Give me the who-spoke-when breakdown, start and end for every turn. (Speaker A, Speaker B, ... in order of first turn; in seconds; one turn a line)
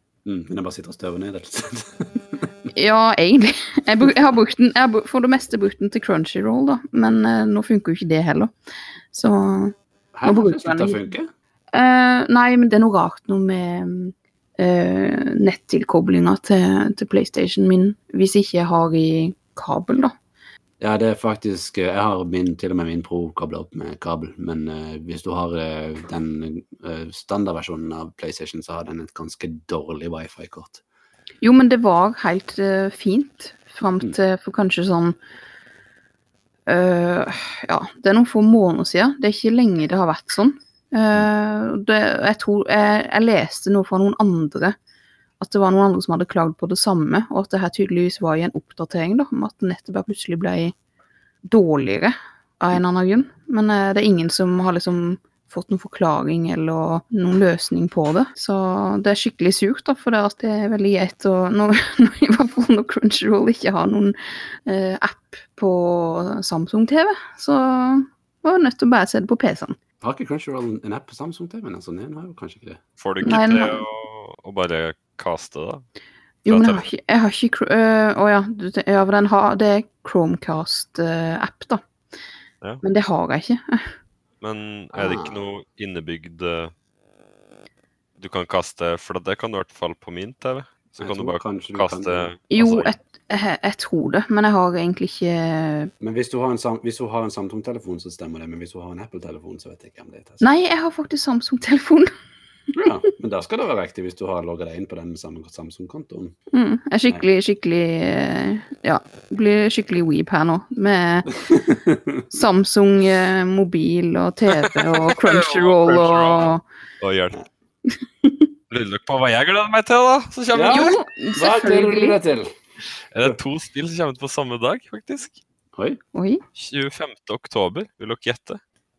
Speaker A: 0.2-2.5
Speaker B: 2.7-8.5
Speaker B: 9.1-11.0
Speaker A: 10.1-11.3
Speaker B: 11.7-20.1
Speaker A: 20.8-30.8
Speaker B: 31.4-35.2
Speaker B: 36.7-44.8
Speaker B: 45.4-50.7
Speaker B: 51.5-69.8
Speaker A: 70.0-72.8
Speaker C: 73.0-75.8
Speaker B: 73.2-73.8
Speaker B: 76.5-81.8
Speaker C: 76.5-76.8
Speaker B: 82.8-84.0
Speaker C: 84.4-86.7
Speaker A: 84.9-85.4
Speaker C: 88.2-92.9
Speaker A: 91.0-92.3
Speaker B: 92.5-95.9
Speaker A: 96.0-100.4
Speaker B: 100.4-102.1
Speaker A: 102.8-106.3
Speaker B: 106.5-111.3
Speaker A: 111.5-112.2
Speaker B: 112.3-116.6
Speaker C: 114.5-117.4
Speaker B: 117.9-118.5
Speaker C: 118.7-121.0
Speaker A: 120.5-122.5
Speaker B: 120.7-122.2
Speaker C: 123.1-125.4
Speaker A: 125.7-126.0
Speaker B: 126.1-126.4
Speaker C: 126.5-128.6